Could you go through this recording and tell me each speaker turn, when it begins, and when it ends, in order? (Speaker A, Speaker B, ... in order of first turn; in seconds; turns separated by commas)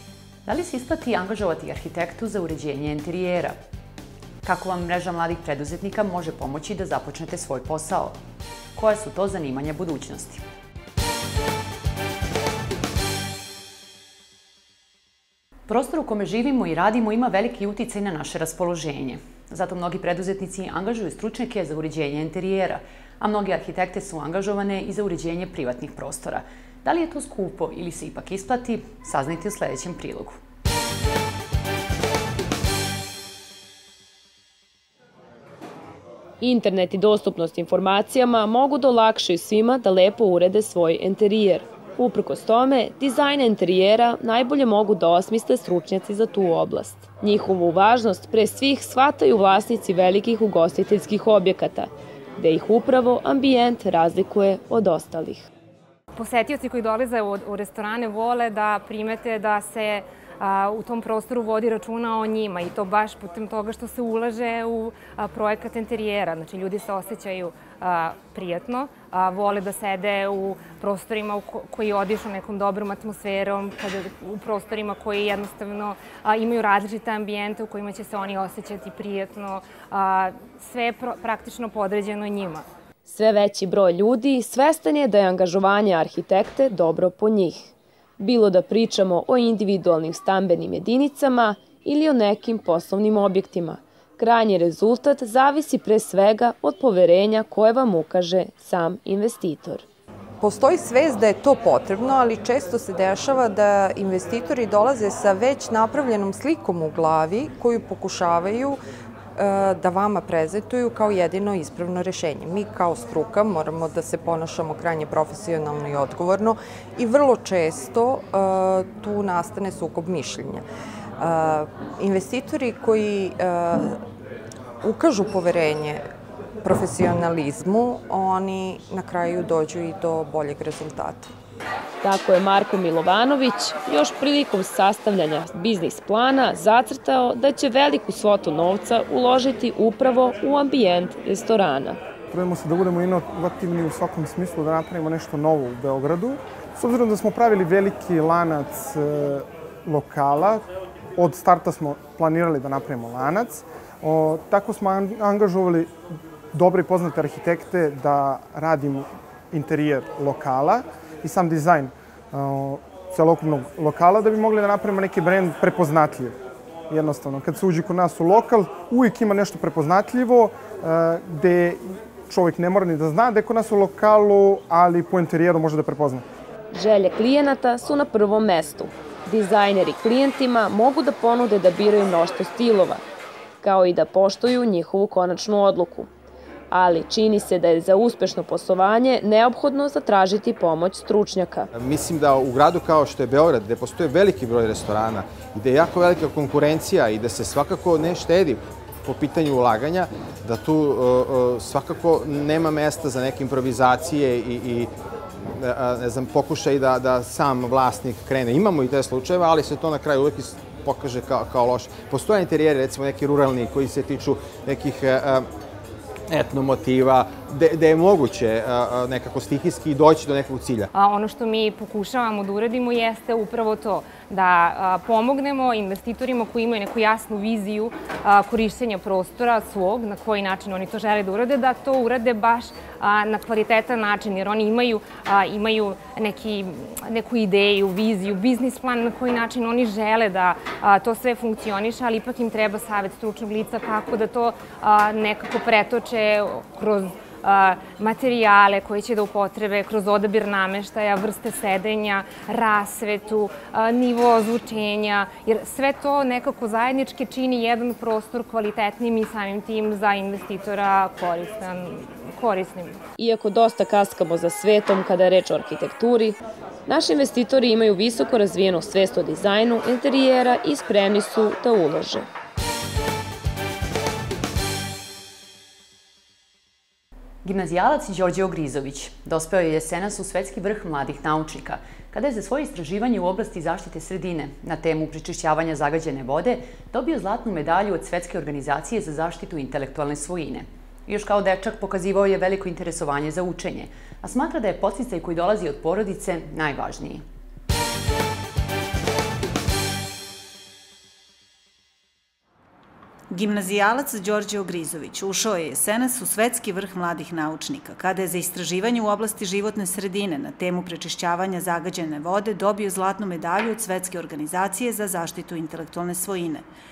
Speaker A: 0.5-3.6, Speaker A: 4.4-8.2, Speaker A: 8.8-10.4, Speaker A: 15.7-30.4, Speaker B: 36.4-55.5, Speaker C: 56.1-82.7, Speaker B: 83.1-99.8, Speaker D: 100.4-108.8, Speaker D: 109.4-120.6, Speaker D: 121.2-124.0, Speaker D: 124.8-126.0, Speaker D: 126.6-131.3, Speaker B: 132.0-142.0, Speaker E: 142.3-150.7, Speaker E: 151.2-156.0, Speaker E: 156.5-166.3, Speaker E: 166.9-176.2, Speaker B: 176.7-183.0, Speaker B: 183.6-186.1, Speaker B: 186.7-191.7, Speaker F: 191.7-204.9, Speaker F: 205.4-215.5, Speaker F: 216.3-220.9, Speaker C: 220.9-263.0, Speaker B: 263.2-266.4, Speaker B: 266.9-272.3, Speaker A: 277.4-297.2, Speaker G: 303.3-316.6